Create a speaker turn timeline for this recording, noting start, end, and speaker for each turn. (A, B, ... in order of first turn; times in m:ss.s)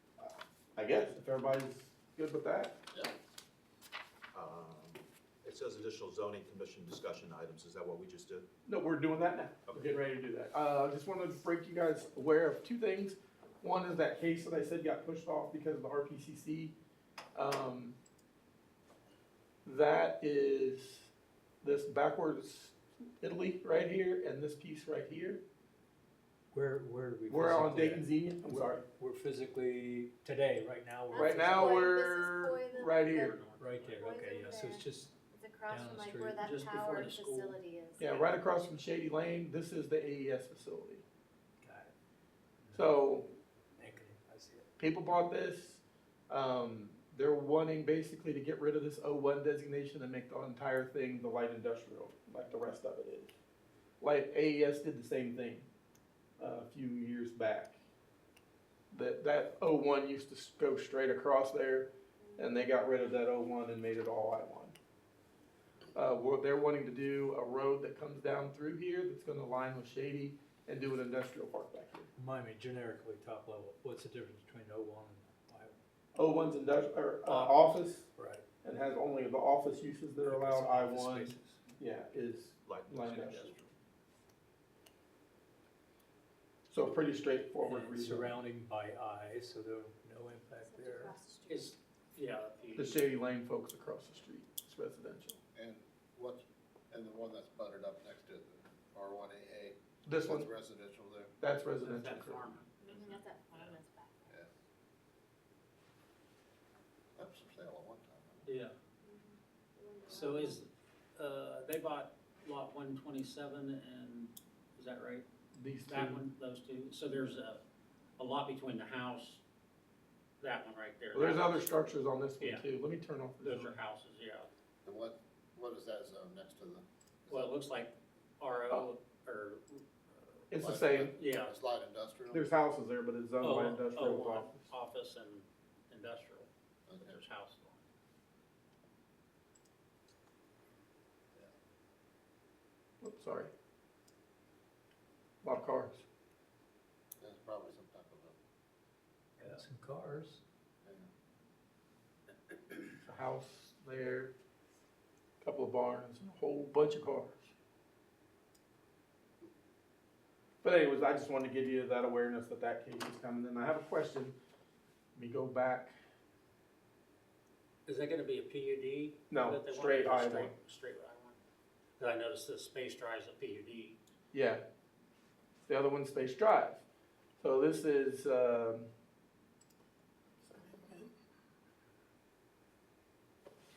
0:00.2-0:02.8 A
0:04.3-0:08.4 B
0:08.6-0:16.7 A
0:09.7-0:09.9 B
0:17.3-0:18.0 A
0:19.6-0:21.1 A
0:21.6-0:25.4 A
0:26.5-0:28.1 C
0:27.3-0:28.8 A
0:29.0-0:31.8 C
0:31.1-0:33.3 D
0:31.2-0:33.4 A
0:33.1-0:34.0 E
0:33.6-0:35.1 C
0:34.0-0:38.2 D
0:35.7-0:36.5 C
0:36.4-0:37.6 E
0:38.0-0:41.0 A
0:41.6-0:41.9 C
0:42.6-0:42.9 C
0:42.7-0:43.3 A
0:43.8-0:44.7 C
0:44.8-0:53.3 A
0:54.0-0:55.7 A
0:56.4-0:57.8 A
0:58.9-1:04.8 A
1:02.2-1:02.7 D
1:05.9-1:12.1 A
1:12.2-1:15.8 C
1:16.1-1:18.1 A
1:17.2-1:17.6 E
1:18.2-1:18.4 C
1:18.6-1:23.6 A
1:20.2-1:21.6 C
1:22.6-1:23.7 B
1:26.7-1:28.4 A
1:27.6-1:31.1 C
1:30.6-1:31.8 D
1:31.5-1:33.0 E
1:32.8-1:35.4 A
1:35.5-1:41.3 F
1:40.0-1:40.5 A
1:41.4-1:42.5 A
1:41.8-1:43.8 E
1:42.8-1:44.4 D
1:47.2-1:48.5 F
1:48.4-1:48.7 E
1:49.0-1:50.6 D
1:50.1-1:55.2 E
1:55.5-1:56.2 A
1:55.9-1:57.6 E
1:58.2-1:59.4 E
2:00.4-2:01.7 E
2:01.1-2:03.8 A
2:02.4-2:02.6 E
2:03.4-2:04.5 E
2:04.8-2:07.5 F
2:07.3-2:09.8 E
2:10.5-2:11.1 A
2:10.6-2:12.4 F
2:11.2-2:11.5 E
2:12.3-2:14.7 A
2:13.4-2:17.8 E
2:16.9-2:17.2 F
2:23.0-2:23.5 A
2:25.4-2:26.0 A
2:27.2-2:28.4 F
2:29.4-2:30.4 C
2:33.0-2:34.3 A
2:35.4-2:37.4 A
2:40.6-2:44.4 A
2:45.1-2:45.9 A
2:47.8-2:51.4 E
2:49.3-2:50.5 A
2:52.0-2:54.0 E
2:54.3-2:54.6 A
2:55.7-2:56.8 A
2:57.4-2:58.9 A
3:00.4-3:01.1 A